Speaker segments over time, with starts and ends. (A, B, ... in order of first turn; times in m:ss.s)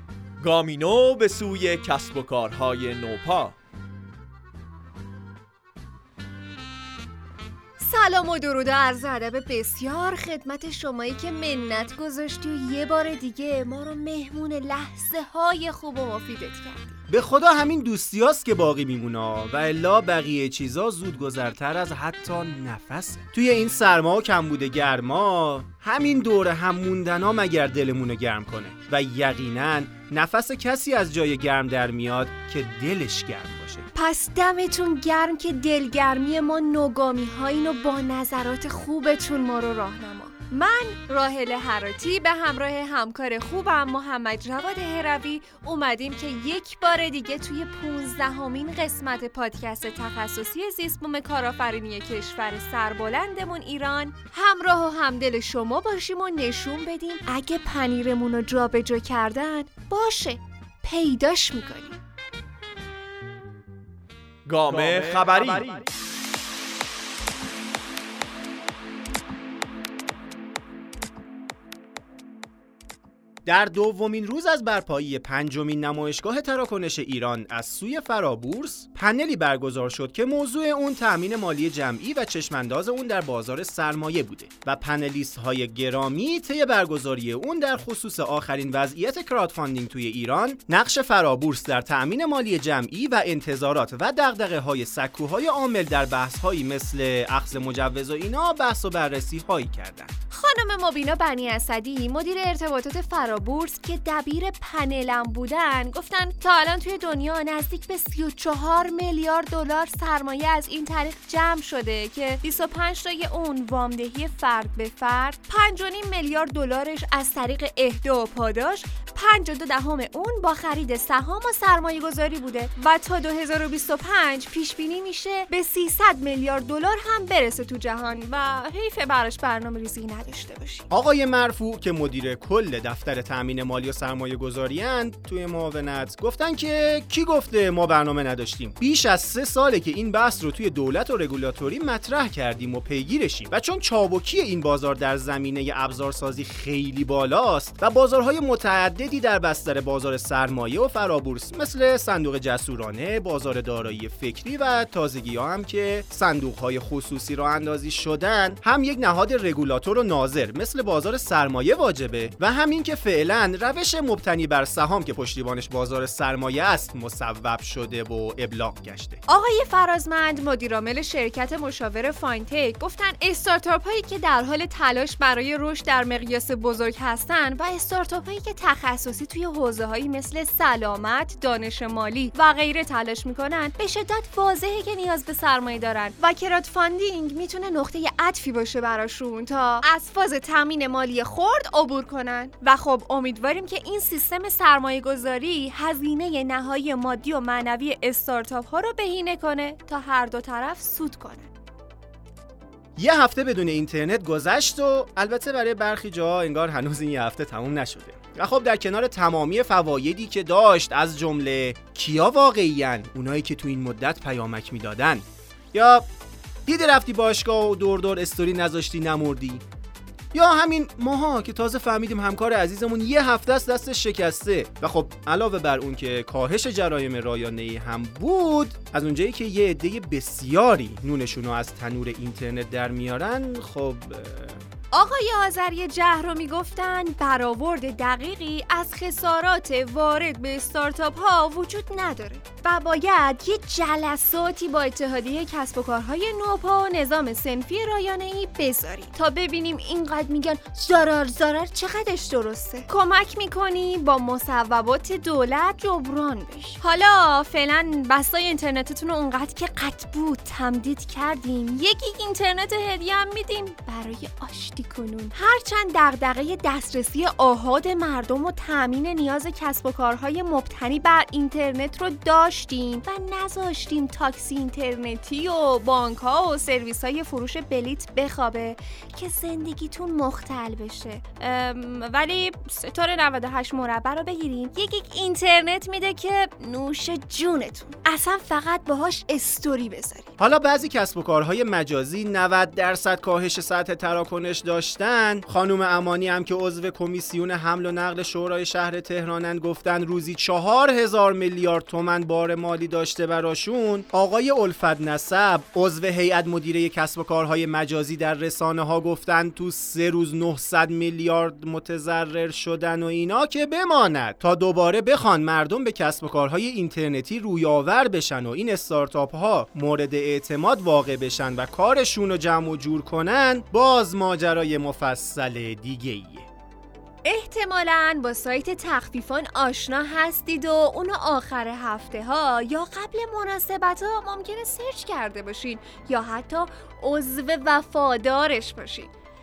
0:00.4-0:03.5 A
0:07.8-0:17.0 B
0:17.1-0:33.9 C
0:34.0-1:02.0 B
1:04.5-1:05.8 A
1:13.4-1:40.2 C
1:40.3-2:10.9 B
2:10.9-2:49.2 C
2:49.3-3:21.5 B
3:23.0-3:36.1 C
3:36.7-3:39.6 C
3:40.3-3:54.6 C
3:54.9-4:50.3 B
4:50.4-5:26.5 C
5:27.2-5:39.1 B